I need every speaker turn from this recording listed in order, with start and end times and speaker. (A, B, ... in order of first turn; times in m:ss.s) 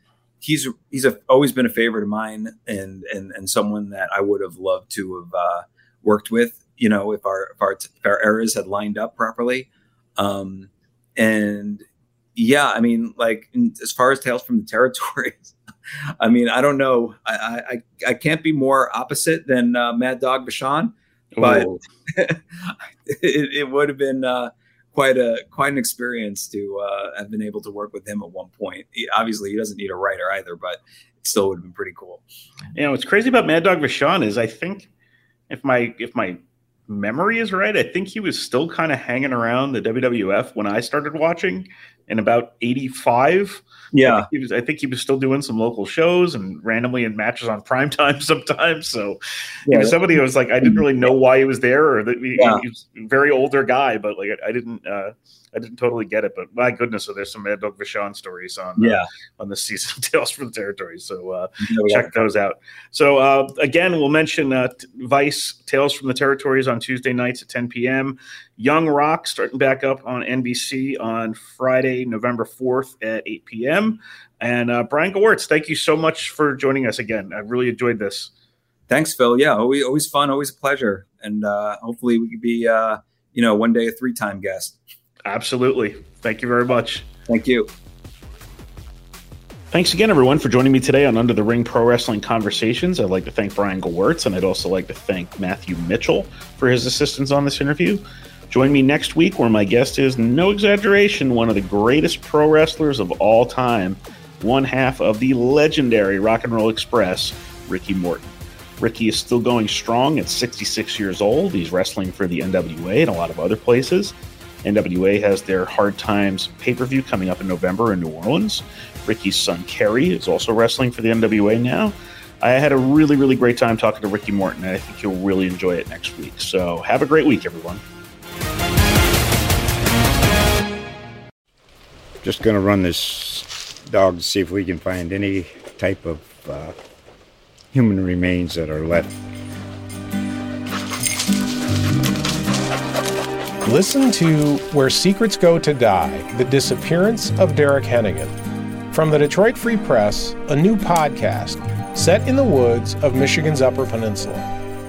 0:00.4-0:11.8 A
0:12.4-0:15.5 A
0:16.2-0:32.2 A
0:21.3-0:21.8 B
0:32.7-0:34.9 B
0:35.5-1:18.3 B
0:43.9-0:44.3 A
0:49.7-0:50.0 A
0:50.6-0:51.1 A
0:52.4-0:52.6 A
0:58.8-0:59.1 A
1:01.6-1:02.2 A
1:18.9-1:24.8 A
1:25.3-1:27.1 B
1:27.3-1:27.7 A
1:29.7-2:07.8 B
2:12.2-2:16.8 C
2:17.7-2:19.2 C
2:23.6-2:28.3 D
2:28.9-2:34.5 D